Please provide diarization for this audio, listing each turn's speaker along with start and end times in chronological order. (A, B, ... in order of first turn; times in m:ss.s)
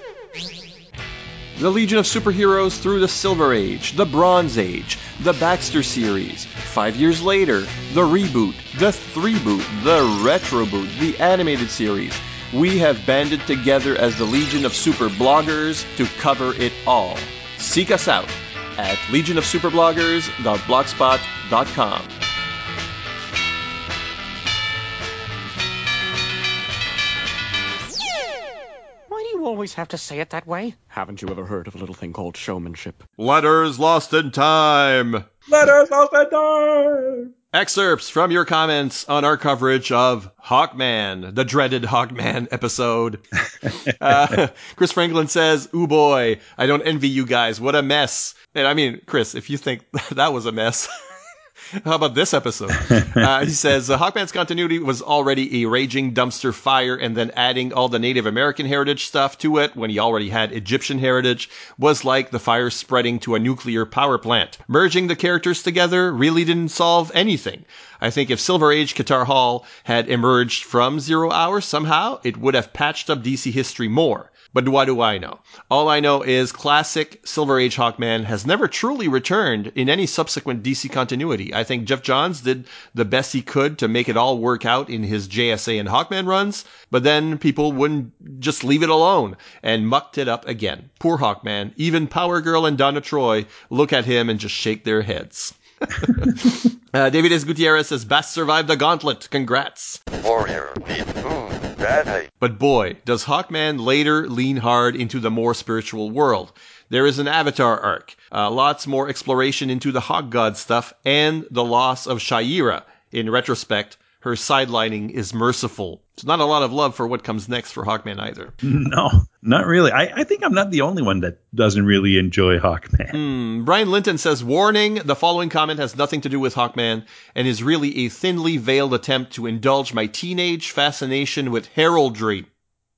0:01.6-0:22.1 A
0:29.1-0:33.0 B
0:33.2-0:35.3 A
0:35.5-0:37.3 C
0:37.5-0:50.9 A
0:51.8-1:40.0 A
0:52.9-0:53.2 C
1:42.4-1:58.5 A
1:58.6-2:03.2 C
2:03.1-2:12.5 A